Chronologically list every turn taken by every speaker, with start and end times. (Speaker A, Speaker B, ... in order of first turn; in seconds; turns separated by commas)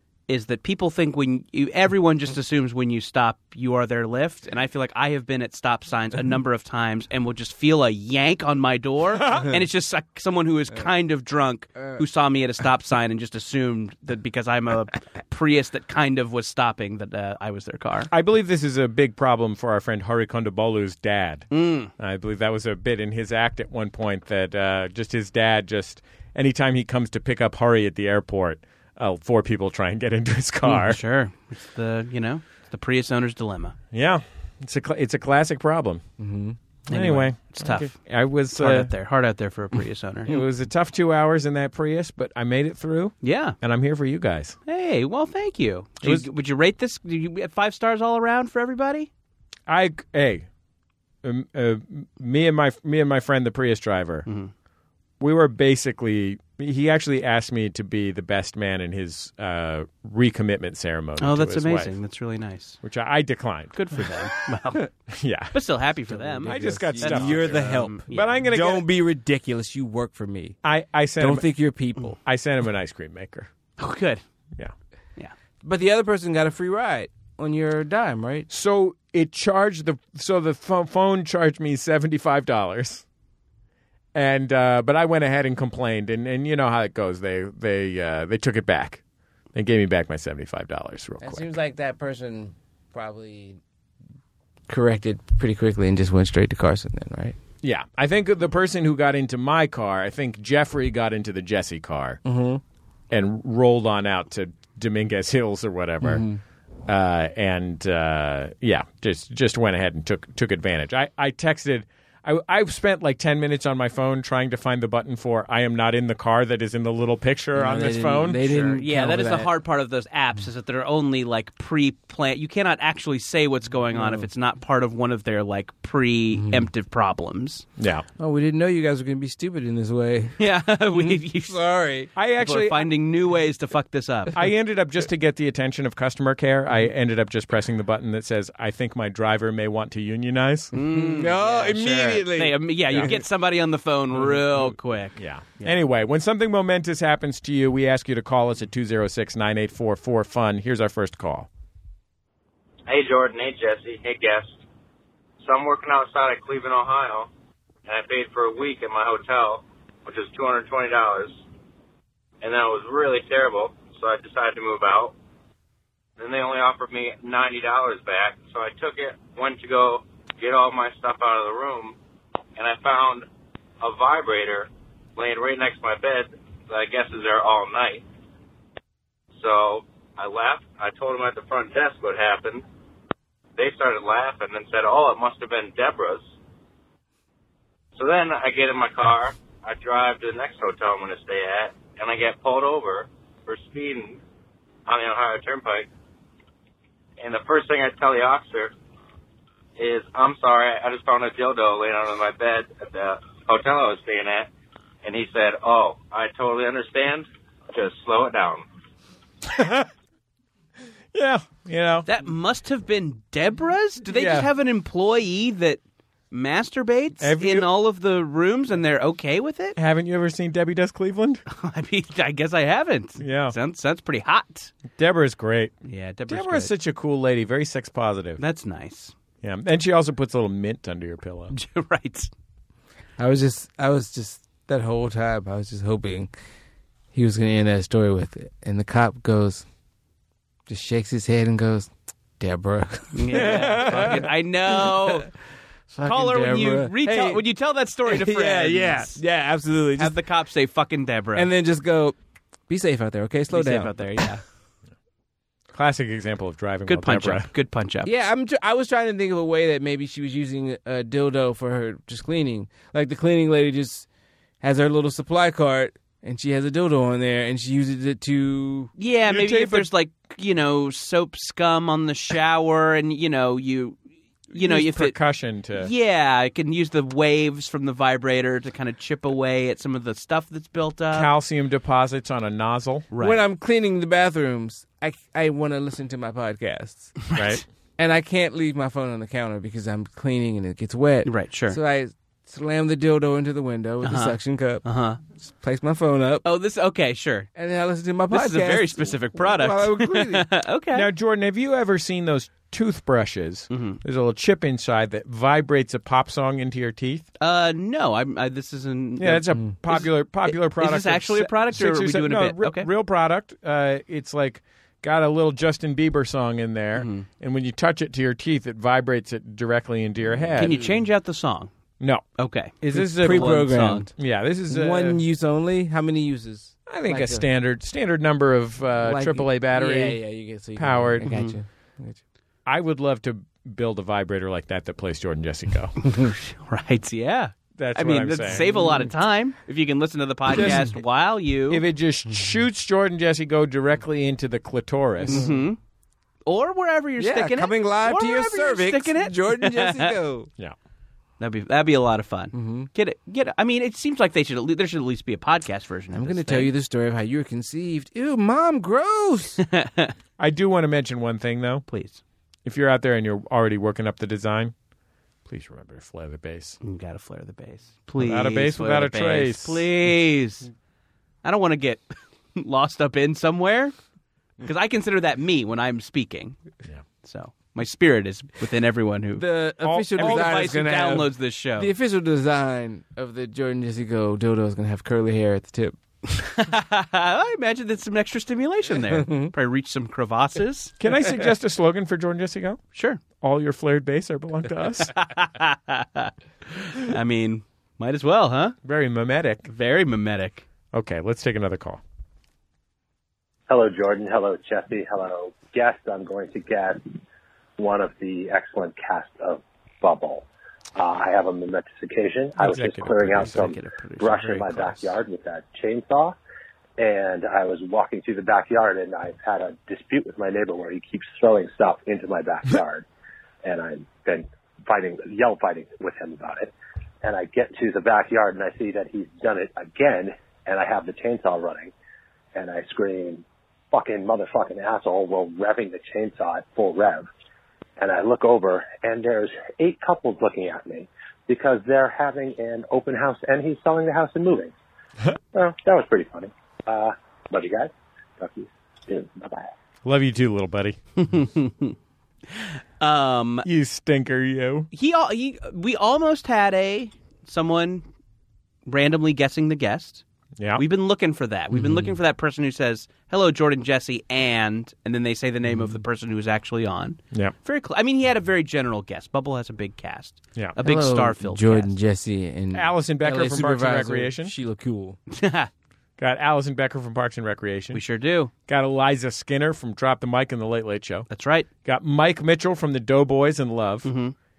Speaker A: 0.3-18.1, Speaker B: 9.1-9.6, Speaker B: 18.1-31.0, Speaker A: 21.5-21.9, Speaker A: 30.6-33.8, Speaker B: 33.9-36.0, Speaker C: 36.2-36.6, Speaker A: 36.9-38.0, Speaker B: 36.9-38.9, Speaker A: 38.5-40.4, Speaker B: 40.3-44.6, Speaker A: 43.2-43.6, Speaker A: 44.7-49.1, Speaker B: 46.0-46.3, Speaker B: 49.7-50.5, Speaker B: 51.2-54.3, Speaker A: 54.3-54.5, Speaker B: 55.2-62.0, Speaker A: 61.2-62.8, Speaker B: 62.8-64.3, Speaker A: 63.7-64.8, Speaker B: 65.1-65.6, Speaker A: 65.5-68.3, Speaker C: 66.1-70.6, Speaker B: 66.4-68.9, Speaker B: 70.6-71.5, Speaker C: 71.2-72.2, Speaker B: 72.2-73.5, Speaker A: 73.8-74.2, Speaker C: 75.6-78.5, Speaker B: 78.5-83.0, Speaker B: 84.1-89.0, Speaker B: 89.5-91.5, Speaker C: 91.2-93.6, Speaker C: 94.7-97.4, Speaker B: 97.6-102.2, Speaker C: 102.2-102.6, Speaker B: 103.1-106.2, Speaker C: 106.0-106.4, Speaker B: 106.9-118.7, Speaker C: 117.5-119.5, Speaker A: 118.5-127.7, Speaker C: 123.9-124.3, Speaker C: 126.3-126.7, Speaker B: 127.8-128.1, Speaker C: 128.2-130.4, Speaker A: 130.4-131.6, Speaker C: 130.9-132.1, Speaker B: 132.2-132.9, Speaker A: 132.4-134.3, Speaker B: 134.3-140.7, Speaker A: 140.7-145.8, Speaker C: 140.8-143.1, Speaker B: 142.9-143.1, Speaker B: 145.2-151.5, Speaker D: 152.9-154.6, Speaker D: 155.4-157.3, Speaker D: 157.9-161.4, Speaker D: 162.4-165.1, Speaker D: 166.2-171.9, Speaker D: 172.6-173.2, Speaker D: 173.8-178.0, Speaker D: 179.3-182.6, Speaker D: 183.6-186.3, Speaker D: 187.9-194.2, Speaker D: 194.9-195.9, Speaker D: 197.2-198.7, Speaker D: 199.8-204.5, Speaker D: 205.0-208.6, Speaker B: 209.4-209.9, Speaker B: 211.1-212.1, Speaker A: 212.1-215.8, Speaker B: 214.1-214.5, Speaker A: 216.3-219.8, Speaker B: 217.2-217.7, Speaker B: 219.8-221.4, Speaker A: 221.5-224.7, Speaker B: 223.2-223.6, Speaker B: 225.0-225.8, Speaker A: 225.9-226.7, Speaker B: 226.3-228.4, Speaker A: 228.4-229.1, Speaker B: 229.4-231.5, Speaker A: 231.5-232.3, Speaker C: 233.2-236.3, Speaker C: 237.1-239.6, Speaker C: 240.7-245.1, Speaker A: 243.1-245.3, Speaker B: 243.3-244.3, Speaker C: 245.9-247.4, Speaker A: 246.1-249.2, Speaker C: 248.1-250.2, Speaker A: 250.0-251.5, Speaker C: 251.3-252.2, Speaker C: 252.7-254.4, Speaker A: 253.5-254.4, Speaker B: 255.7-257.5, Speaker A: 256.9-258.1, Speaker C: 258.0-264.1, Speaker C: 264.6-268.9, Speaker A: 269.0-274.0, Speaker B: 269.3-269.9, Speaker A: 274.5-275.2, Speaker B: 274.5-275.9, Speaker A: 275.8-281.3, Speaker B: 281.1-283.1, Speaker A: 283.1-283.4, Speaker C: 283.2-287.2, Speaker A: 287.3-287.6, Speaker B: 287.4-287.6, Speaker C: 288.0-294.9, Speaker A: 291.2-291.8, Speaker A: 294.0-295.2, Speaker C: 295.4-296.4, Speaker A: 296.4-297.5, Speaker C: 297.6-300.4, Speaker A: 298.3-301.1, Speaker B: 300.9-307.3, Speaker A: 303.7-304.0, Speaker A: 307.4-312.9, Speaker B: 309.2-320.8, Speaker A: 316.9-317.3, Speaker C: 320.4-320.9, Speaker A: 320.6-321.7, Speaker B: 322.0-322.3, Speaker A: 322.4-324.1, Speaker B: 322.8-325.2, Speaker C: 322.9-324.1, Speaker C: 324.7-327.4, Speaker B: 326.9-330.2, Speaker C: 329.0-332.2, Speaker B: 330.8-331.3, Speaker A: 331.3-331.6, Speaker B: 332.7-336.0, Speaker A: 336.2-341.8, Speaker B: 337.8-338.7, Speaker C: 338.7-339.0, Speaker B: 340.5-340.9, Speaker B: 341.7-345.4, Speaker C: 345.3-345.6, Speaker A: 345.3-345.8, Speaker A: 346.4-350.1, Speaker C: 347.2-350.5, Speaker A: 351.4-356.7, Speaker C: 352.5-352.9, Speaker C: 356.1-359.6, Speaker A: 359.6-360.1, Speaker B: 360.4-361.9, Speaker A: 361.9-362.2, Speaker B: 362.6-364.7, Speaker B: 365.4-366.8, Speaker A: 366.8-370.7, Speaker B: 368.2-369.9, Speaker A: 371.4-373.9, Speaker A: 374.6-376.6, Speaker A: 377.2-379.4, Speaker C: 379.4-386.0, Speaker B: 379.8-380.8, Speaker A: 380.2-381.9, Speaker A: 386.4-390.9, Speaker C: 389.1-389.5, Speaker B: 391.0-392.8, Speaker A: 392.9-393.2, Speaker B: 393.4-395.1, Speaker A: 395.1-398.8, Speaker B: 398.8-399.7, Speaker A: 399.7-400.7, Speaker B: 400.9-402.0, Speaker E: 403.7-407.2, Speaker E: 407.8-416.4, Speaker B: 412.6-413.7, Speaker A: 413.3-415.2, Speaker E: 417.0-423.1, Speaker E: 423.6-431.9, Speaker E: 432.5-437.3, Speaker E: 438.0-444.7, Speaker E: 445.5-449.7, Speaker B: 450.0-451.0, Speaker A: 451.2-451.9, Speaker A: 452.5-453.7, Speaker B: 453.6-454.9, Speaker A: 454.9-458.1, Speaker A: 458.9-460.2, Speaker B: 460.6-460.8, Speaker A: 460.8-471.9, Speaker C: 461.7-462.2, Speaker C: 470.8-475.2, Speaker B: 472.7-474.6, Speaker A: 475.3-475.7, Speaker B: 476.2-478.0, Speaker A: 477.9-478.5, Speaker B: 478.7-481.3, Speaker A: 481.3-481.7, Speaker B: 481.8-484.1, Speaker A: 484.1-484.3